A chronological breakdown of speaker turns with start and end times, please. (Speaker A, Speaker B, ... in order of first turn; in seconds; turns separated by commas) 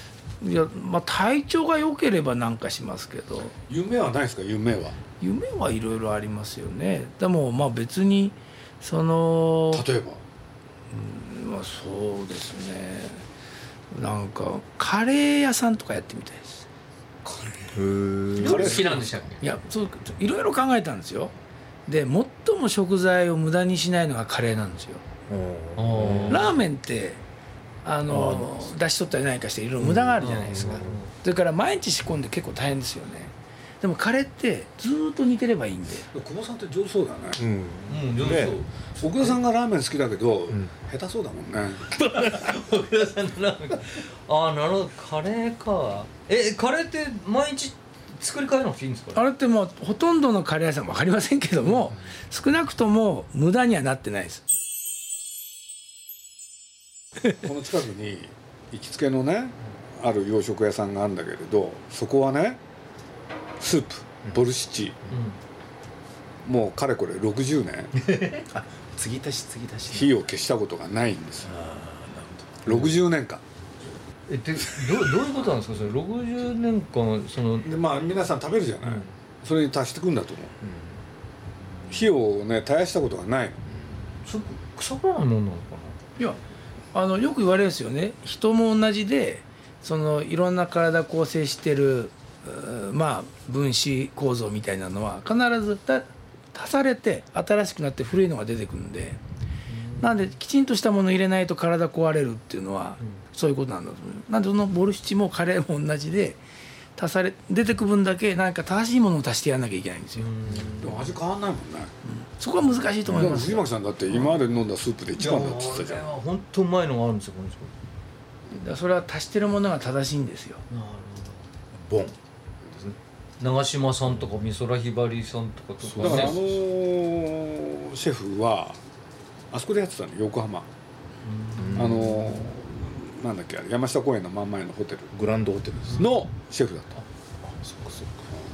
Speaker A: 0.4-3.5, Speaker B: 3.7-5.0, Speaker A: 5.2-9.8, Speaker B: 9.7-10.2, Speaker A: 10.9-13.2, Speaker A: 13.9-16.6, Speaker B: 17.2-17.8, Speaker C: 17.7-18.9, Speaker D: 18.4-19.4, Speaker B: 18.4-19.0, Speaker A: 19.4-21.3, Speaker A: 21.9-25.0, Speaker C: 25.3-26.5, Speaker D: 25.8-26.5, Speaker A: 26.2-27.2, Speaker A: 27.8-36.1, Speaker C: 28.1-28.7, Speaker C: 29.8-31.0, Speaker D: 30.2-31.1, Speaker B: 36.1-37.4, Speaker C: 37.4-38.6, Speaker D: 37.9-38.7, Speaker B: 39.0-41.9, Speaker D: 41.9-49.2, Speaker A: 49.1-54.4, Speaker B: 57.4-62.6, Speaker B: 63.6-65.0, Speaker D: 65.1-65.4, Speaker B: 66.4-67.9, Speaker D: 68.0-68.4, Speaker C: 68.5-70.1, Speaker B: 69.9-71.5, Speaker C: 71.4-72.8, Speaker B: 72.6-73.4, Speaker D: 74.3-77.7, Speaker B: 77.6-80.5, Speaker C: 80.6-80.9, Speaker B: 81.9-83.6, Speaker D: 84.2-86.0, Speaker A: 86.9-99.2, Speaker D: 99.7-100.2, Speaker A: 100.0-106.4, Speaker A: 107.0-110.3, Speaker D: 110.2-111.1, Speaker B: 110.8-111.9, Speaker A: 112.0-113.7, Speaker B: 113.0-116.1, Speaker D: 115.2-117.7, Speaker A: 118.5-120.6, Speaker D: 120.7-121.4, Speaker C: 121.7-122.2, Speaker C: 122.7-123.0, Speaker D: 123.4-126.4, Speaker C: 125.9-126.3, Speaker B: 126.0-128.8, Speaker B: 129.5-130.7, Speaker D: 131.4-132.0, Speaker C: 131.6-132.2, Speaker B: 131.7-135.1, Speaker C: 135.1-136.1, Speaker B: 135.9-136.9, Speaker C: 137.4-138.3